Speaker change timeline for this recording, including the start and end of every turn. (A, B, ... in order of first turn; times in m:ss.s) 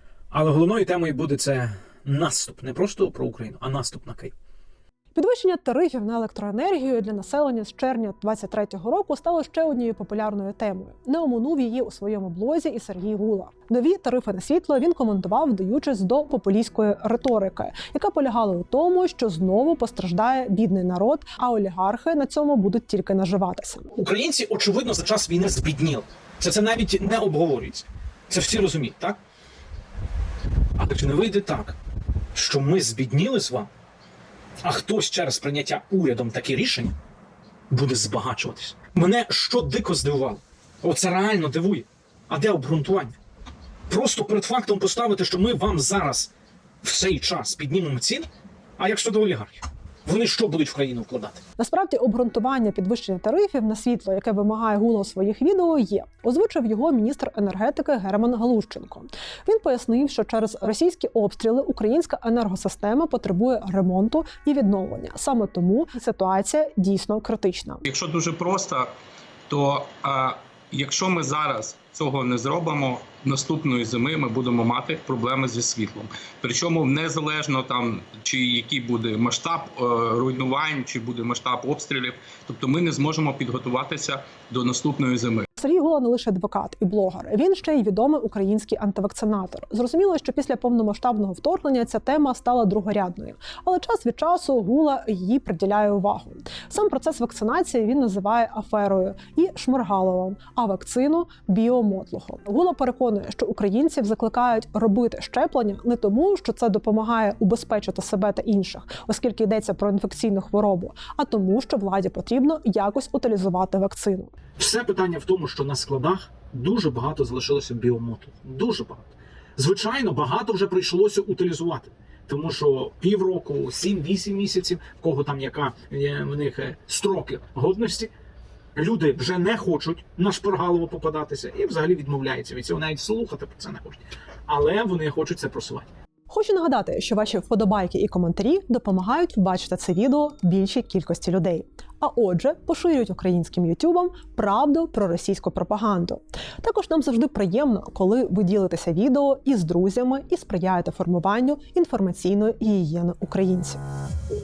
0:00.3-0:04.3 A
0:05.2-0:23.9 B
0:23.9-0:29.2 A
0:30.8-0:31.8 A
0:32.3-0:33.7 A
0:34.6-0:37.0 A
0:37.7-0:43.2 A
0:43.9-0:46.3 A
0:46.8-0:51.4 A
0:51.6-1:07.8 B
1:07.8-1:08.9 C
1:09.5-1:25.4 C
1:25.6-1:54.3 B
1:54.6-2:08.1 A
2:08.8-2:15.9 A
2:16.3-2:33.8 B